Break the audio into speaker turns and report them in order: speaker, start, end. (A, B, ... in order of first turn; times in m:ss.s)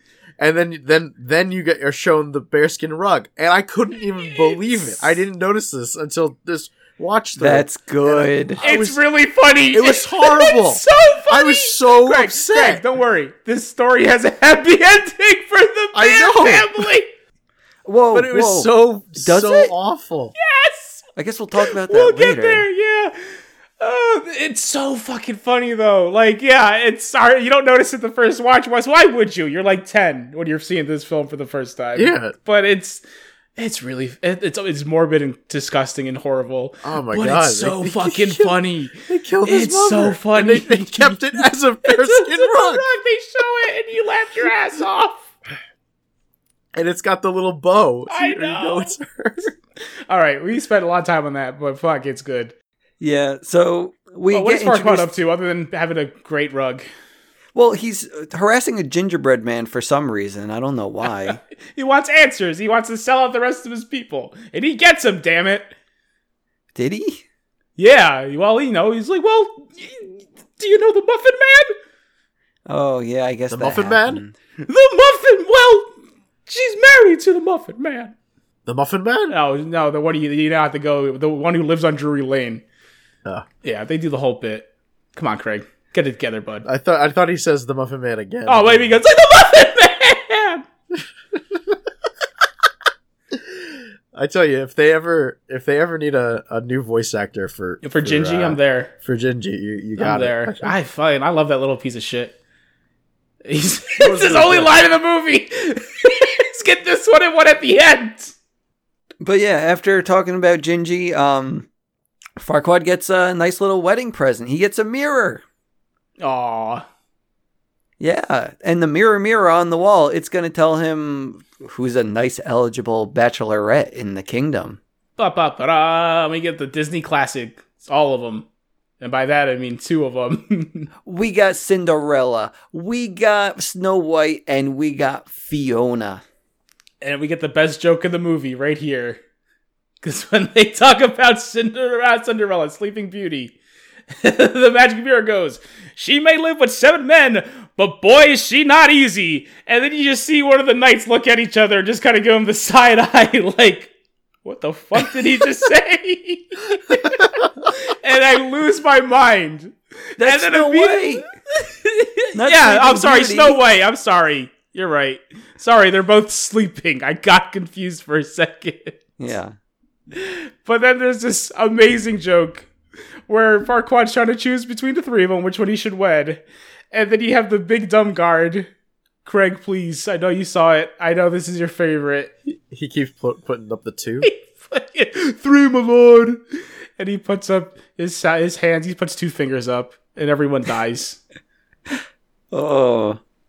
0:00.4-0:09.0 A
0:07.4-0:08.6 B
0:08.6-0:17.1 C
0:09.7-0:12.8 A
0:15.9-0:16.9 A
0:17.8-0:19.7 B
0:18.1-0:20.3 A
0:20.4-0:21.0 C
0:21.2-0:22.7 B
0:21.6-0:23.2 C
0:23.8-0:33.0 C
0:32.0-0:32.3 A
0:33.6-0:45.3 C
0:36.8-0:42.8 A
0:46.7-0:49.5 A
0:48.1-0:49.0 C
0:50.1-0:52.5 C
0:53.0-0:55.1 B
0:54.3-0:56.8 C
0:57.5-1:01.4 B
1:01.0-1:05.7 C
1:06.7-1:07.2 B
1:07.8-1:11.7 C
1:12.7-1:14.3 B
1:13.5-1:14.2 A
1:14.6-1:15.9 C
1:16.5-1:18.1 C
1:18.6-1:19.3 A
1:19.3-1:22.6 C
1:23.6-1:26.7 C
1:26.6-1:29.0 A
1:28.5-1:30.6 C
1:31.3-1:31.7 A
1:33.3-1:40.7 A
1:37.8-1:38.9 C
1:40.0-1:42.4 C
1:43.4-1:48.3 C
1:44.0-1:44.8 A
1:49.2-1:51.7 B
1:52.4-1:55.4 B
1:56.2-1:56.8 C
1:58.0-2:04.8 B
2:05.2-2:08.4 C
2:09.0-2:10.9 C
2:11.0-2:16.2 B
2:17.0-2:19.2 C
2:20.0-2:23.5 C
2:24.2-2:33.9 C
2:34.4-2:49.0 C
2:40.2-2:41.2 B
2:42.3-2:43.6 B
2:49.2-2:49.5 B
2:50.1-2:52.7 C
2:53.3-2:58.7 C
2:59.2-3:02.3 C
3:02.4-3:04.3 A
3:04.2-3:06.4 C
3:07.0-3:11.2 C
3:12.5-3:13.2 B